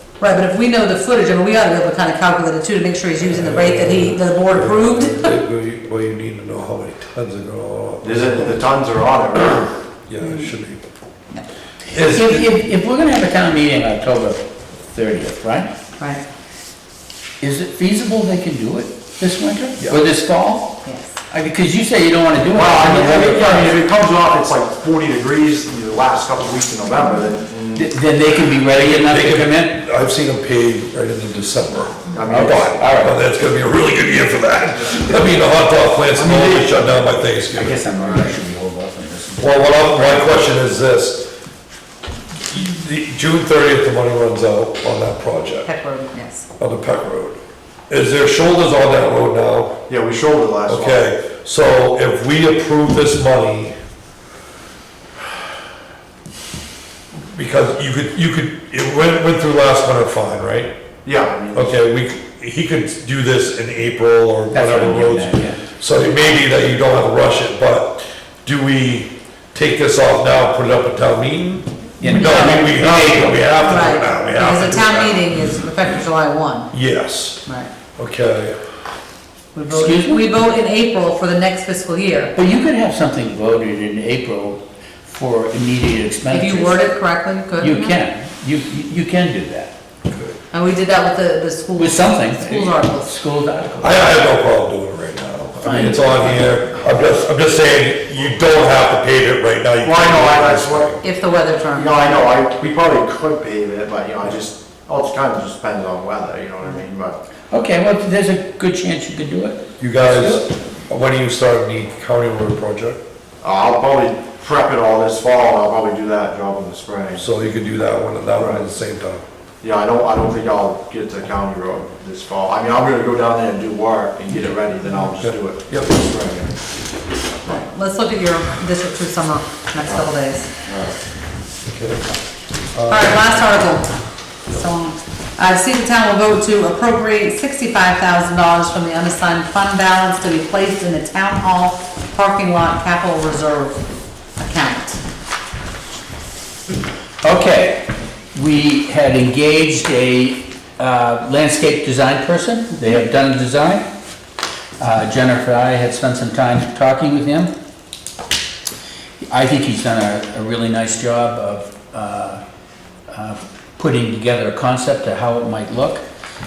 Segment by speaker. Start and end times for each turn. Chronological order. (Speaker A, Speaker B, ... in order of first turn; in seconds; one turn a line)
Speaker A: 0.2-5.4
Speaker B: 3.2-8.6
Speaker C: 8.0-9.7
Speaker B: 10.1-10.8
Speaker A: 10.2-10.5
Speaker B: 11.9-12.5
Speaker D: 11.9-15.7
Speaker D: 17.4-23.8
Speaker A: 20.9-21.1
Speaker C: 22.5-27.9
Speaker B: 22.9-23.7
Speaker D: 27.8-29.8
Speaker B: 28.7-37.8
Speaker C: 32.1-32.8
Speaker D: 32.3-33.2
Speaker D: 36.1-36.9
Speaker D: 37.5-40.0
Speaker C: 38.0-38.2
Speaker B: 39.4-41.3
Speaker B: 42.5-45.7
Speaker A: 45.6-46.5
Speaker B: 46.6-47.4
Speaker B: 47.9-49.8
Speaker C: 49.9-51.0
Speaker B: 50.7-53.7
Speaker B: 57.3-60.7
Speaker C: 61.0-61.8
Speaker B: 61.5-75.2
Speaker D: 64.5-65.6
Speaker D: 72.0-73.5
Speaker A: 72.1-72.7
Speaker A: 73.6-76.7
Speaker B: 76.7-77.4
Speaker B: 78.0-78.6
Speaker A: 79.5-82.3
Speaker D: 79.7-80.3
Speaker D: 82.3-86.9
Speaker A: 86.3-88.0
Speaker D: 87.6-89.7
Speaker B: 90.1-90.4
Speaker A: 90.5-93.1
Speaker D: 91.8-94.1
Speaker B: 93.8-101.0
Speaker D: 95.6-96.5
Speaker C: 99.8-101.0
Speaker A: 101.0-102.2
Speaker C: 101.7-107.2
Speaker D: 107.5-110.5
Speaker B: 109.8-113.0
Speaker C: 113.4-117.3
Speaker B: 117.2-119.2
Speaker C: 118.4-118.7
Speaker C: 119.6-126.6
Speaker B: 125.0-125.9
Speaker A: 127.5-130.5
Speaker C: 129.8-130.1
Speaker C: 130.6-131.0
Speaker B: 131.7-132.1
Speaker B: 132.7-133.5
Speaker A: 132.9-133.9
Speaker A: 134.5-143.8
Speaker A: 144.4-145.0
Speaker D: 147.2-153.8
Speaker D: 154.8-157.5
Speaker D: 159.3-162.4
Speaker D: 163.1-166.0